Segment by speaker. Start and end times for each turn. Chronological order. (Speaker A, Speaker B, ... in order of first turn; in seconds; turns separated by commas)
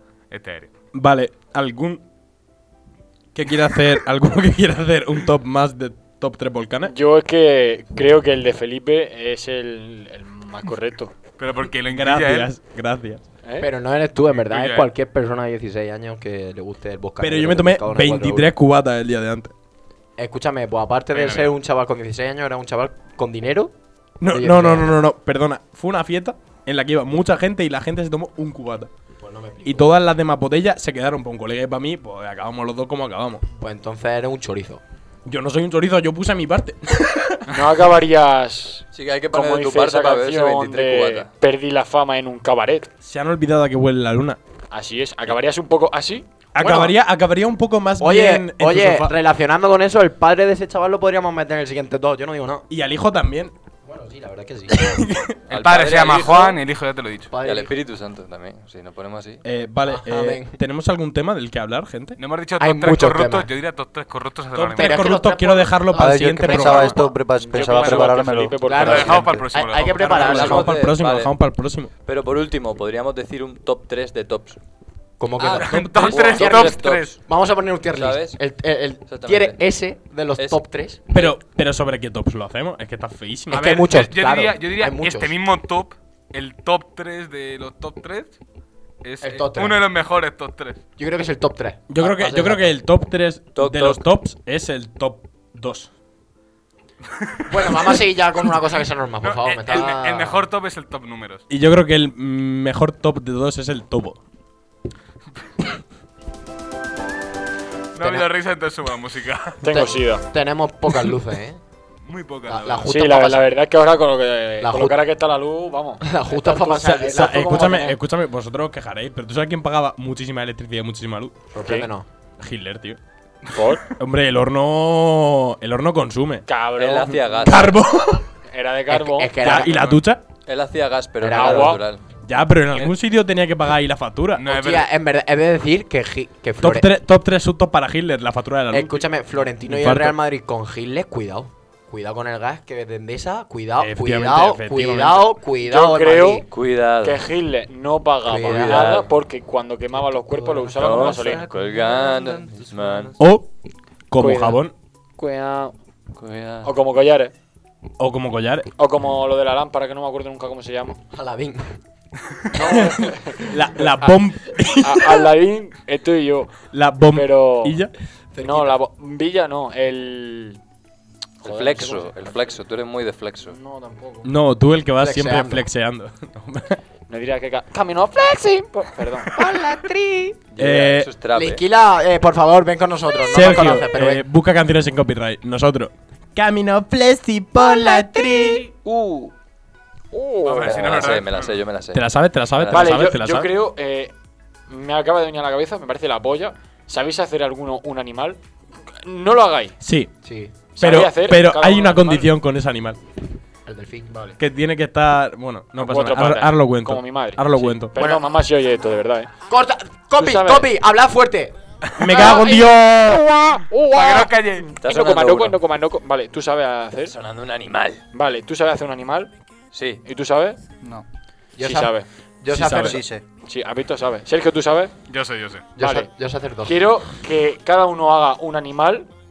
Speaker A: 0.3-0.7, Speaker B: 0.9-2.0, Speaker B: 3.3-6.9, Speaker C: 6.8-11.1, Speaker A: 11.4-12.5, Speaker B: 11.9-13.2, Speaker D: 13.6-18.5, Speaker A: 14.3-14.9, Speaker B: 17.2-19.5, Speaker D: 20.2-23.7, Speaker A: 21.1-21.5, Speaker B: 24.2-28.9, Speaker D: 24.3-25.0, Speaker D: 29.2-29.9, Speaker B: 29.6-33.4, Speaker D: 33.6-34.8, Speaker B: 35.2-37.4, Speaker C: 37.5-42.9, Speaker E: 38.9-41.3, Speaker B: 43.0-44.4, Speaker C: 44.7-46.2, Speaker B: 46.5-49.1, Speaker D: 46.6-46.9, Speaker D: 48.0-52.6, Speaker B: 52.7-53.5, Speaker D: 53.8-55.1, Speaker B: 54.7-55.4, Speaker A: 55.5-57.3, Speaker E: 55.5-56.6, Speaker D: 57.3-57.7, Speaker E: 57.4-59.4, Speaker B: 59.4-62.2, Speaker D: 59.8-60.6, Speaker A: 62.2-65.1, Speaker D: 62.6-63.5, Speaker B: 64.5-67.1, Speaker D: 64.7-67.1, Speaker F: 65.9-69.5, Speaker C: 67.3-69.2, Speaker A: 67.5-70.2, Speaker D: 68.6-70.8, Speaker B: 69.9-71.9, Speaker E: 70.1-71.3, Speaker E: 72.0-74.6, Speaker D: 75.2-81.4, Speaker A: 75.4-77.1, Speaker B: 75.7-76.3, Speaker E: 75.8-77.2, Speaker E: 77.9-78.4, Speaker E: 79.0-79.6, Speaker E: 80.4-80.6, Speaker B: 81.1-83.7, Speaker D: 83.5-85.3, Speaker A: 83.5-88.4, Speaker A: 89.0-90.8, Speaker D: 89.2-89.8, Speaker D: 91.0-92.7, Speaker B: 91.9-95.9, Speaker E: 93.5-94.0, Speaker D: 97.5-100.4, Speaker A: 97.5-97.9, Speaker A: 99.2-101.4, Speaker B: 101.5-104.2, Speaker A: 107.9-109.6, Speaker D: 108.0-108.3, Speaker C: 109.6-110.2, Speaker D: 109.6-111.6, Speaker A: 112.0-112.9, Speaker D: 112.5-113.5, Speaker C: 112.9-117.2, Speaker D: 114.6-115.0, Speaker D: 116.0-118.0, Speaker B: 117.0-121.3, Speaker D: 121.5-122.1, Speaker C: 121.6-121.9, Speaker B: 122.4-123.0, Speaker C: 123.5-123.8, Speaker B: 124.0-126.4, Speaker C: 126.5-127.3, Speaker E: 126.8-127.8, Speaker B: 127.3-128.3, Speaker C: 128.5-129.5, Speaker D: 128.9-129.8, Speaker B: 129.4-130.2, Speaker A: 129.5-130.1, Speaker E: 130.4-132.0, Speaker D: 131.2-131.8, Speaker C: 131.3-131.8, Speaker B: 132.2-134.4, Speaker A: 134.3-134.9, Speaker D: 134.4-136.9, Speaker B: 136.6-140.2, Speaker D: 138.7-146.4, Speaker B: 143.8-145.3, Speaker C: 145.6-146.4, Speaker E: 146.5-147.2, Speaker C: 147.0-151.4, Speaker D: 148.2-149.1, Speaker E: 148.4-149.1, Speaker D: 150.2-151.4, Speaker E: 150.8-153.2, Speaker F: 151.1-153.2, Speaker B: 153.2-153.5, Speaker B: 154.1-154.7, Speaker C: 154.2-154.6, Speaker C: 155.2-155.7, Speaker E: 156.2-156.7, Speaker C: 156.6-157.3, Speaker B: 158.0-158.7, Speaker C: 158.8-161.0, Speaker D: 161.1-161.7, Speaker C: 162.5-164.1, Speaker B: 162.7-165.3, Speaker C: 164.8-166.6, Speaker B: 166.7-167.9, Speaker C: 167.1-167.8, Speaker D: 168.3-168.8, Speaker C: 168.4-170.6, Speaker C: 171.4-172.2, Speaker E: 171.4-173.6, Speaker C: 173.5-174.2, Speaker D: 173.6-174.2, Speaker B: 174.2-176.8, Speaker D: 174.9-175.7, Speaker C: 177.1-179.5, Speaker D: 179.3-180.4, Speaker E: 180.5-181.6, Speaker B: 180.6-181.1, Speaker D: 181.3-184.2, Speaker B: 183.3-188.7, Speaker D: 187.8-188.6, Speaker C: 188.8-189.3, Speaker C: 190.1-190.8, Speaker A: 190.4-191.6, Speaker E: 190.5-193.1, Speaker B: 190.8-191.1, Speaker B: 191.9-193.5, Speaker C: 192.7-194.1, Speaker C: 194.7-198.4, Speaker C: 199.0-199.8, Speaker B: 199.8-200.1, Speaker D: 200.2-200.5, Speaker C: 200.8-202.3, Speaker B: 200.8-203.0, Speaker D: 203.7-204.1, Speaker C: 204.1-204.3, Speaker B: 204.4-207.9, Speaker C: 205.8-209.3, Speaker D: 207.9-208.3, Speaker D: 209.5-211.5, Speaker C: 210.2-210.7, Speaker B: 212.0-213.2, Speaker C: 212.1-217.1, Speaker A: 213.9-214.7, Speaker E: 214.8-215.6, Speaker E: 217.1-218.0, Speaker C: 218.1-219.3, Speaker E: 219.7-220.0, Speaker C: 220.0-220.6, Speaker D: 221.6-223.0, Speaker C: 221.6-224.9, Speaker F: 222.5-223.2, Speaker A: 225.1-225.7, Speaker C: 225.8-226.1, Speaker D: 225.8-226.8, Speaker C: 226.6-229.1